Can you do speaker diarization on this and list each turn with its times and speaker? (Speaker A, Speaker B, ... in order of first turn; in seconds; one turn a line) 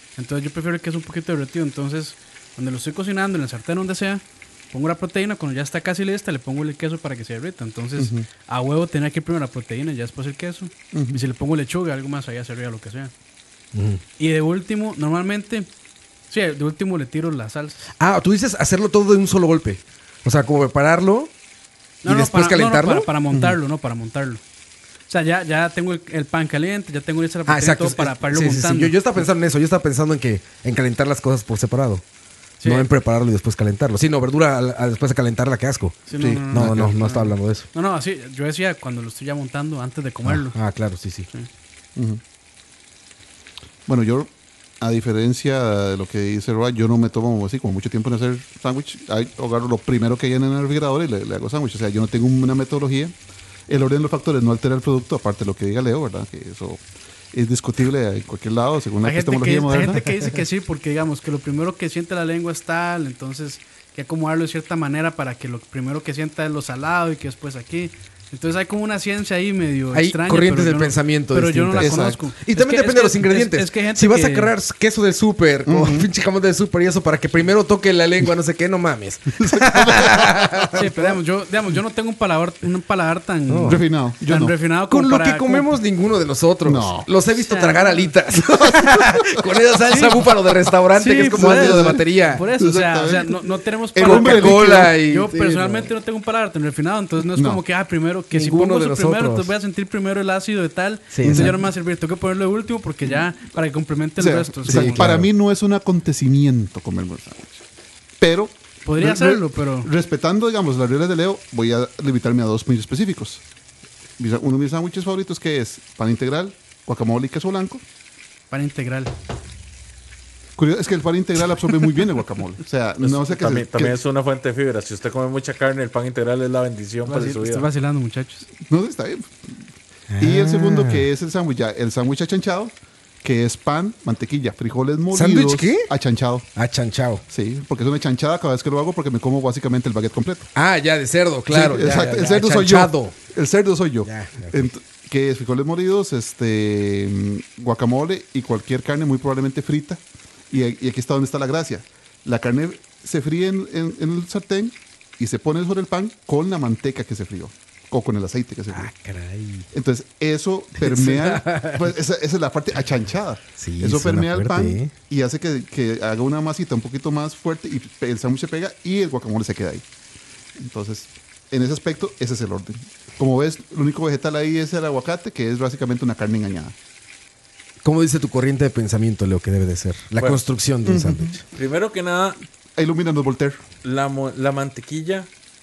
Speaker A: 0.2-13.1
Speaker B: 8.0-8.3
Speaker B: 10.9-11.2
Speaker C: 13.7-14.0
Speaker A: 14.2-15.7
Speaker A: 16.3-17.9
Speaker C: 18.0-21.3
Speaker A: 22.0-24.4
Speaker C: 22.0-23.4
Speaker A: 25.1-28.9
Speaker C: 27.4-32.0
Speaker A: 32.6-32.9
Speaker C: 32.6-37.7
Speaker A: 36.1-40.6
Speaker B: 36.2-36.9
Speaker C: 40.2-41.3
Speaker B: 42.0-42.2
Speaker B: 43.9-53.1
Speaker B: 53.7-56.8
Speaker B: 57.3-60.0
Speaker A: 59.0-74.5
Speaker C: 69.9-80.9
Speaker B: 71.8-72.2
Speaker B: 75.7-76.1
Speaker B: 79.4-81.1
Speaker A: 80.7-85.8
Speaker C: 83.5-83.8
Speaker B: 83.7-84.5
Speaker C: 84.9-92.4
Speaker B: 86.6-87.1
Speaker A: 87.3-88.1
Speaker B: 88.3-89.5
Speaker A: 89.9-90.2
Speaker A: 90.9-105.2
Speaker B: 91.3-93.4
Speaker B: 93.9-94.9
Speaker C: 94.0-95.9
Speaker B: 97.3-97.6
Speaker C: 98.3-99.5
Speaker C: 101.1-101.6
Speaker B: 101.2-101.5
Speaker B: 104.2-107.6
Speaker C: 104.7-105.3
Speaker B: 108.2-113.4
Speaker A: 108.8-109.9
Speaker B: 114.2-117.8
Speaker A: 118.5-119.1
Speaker B: 120.6-124.0
Speaker D: 123.0-127.7
Speaker A: 127.0-128.5
Speaker B: 128.7-129.5
Speaker C: 130.1-131.1
Speaker B: 130.2-136.5
Speaker C: 135.1-135.9
Speaker C: 136.5-137.2
Speaker B: 137.3-140.5
Speaker C: 140.5-143.1
Speaker B: 141.5-158.9
Speaker C: 144.0-144.7
Speaker C: 158.7-159.7
Speaker B: 159.7-169.8
Speaker C: 160.8-161.9
Speaker C: 163.6-164.9
Speaker B: 170.6-176.7
Speaker C: 177.8-181.4
Speaker D: 180.2-180.4
Speaker B: 180.8-181.4
Speaker D: 181.5-182.4
Speaker B: 182.8-183.6
Speaker D: 183.8-185.3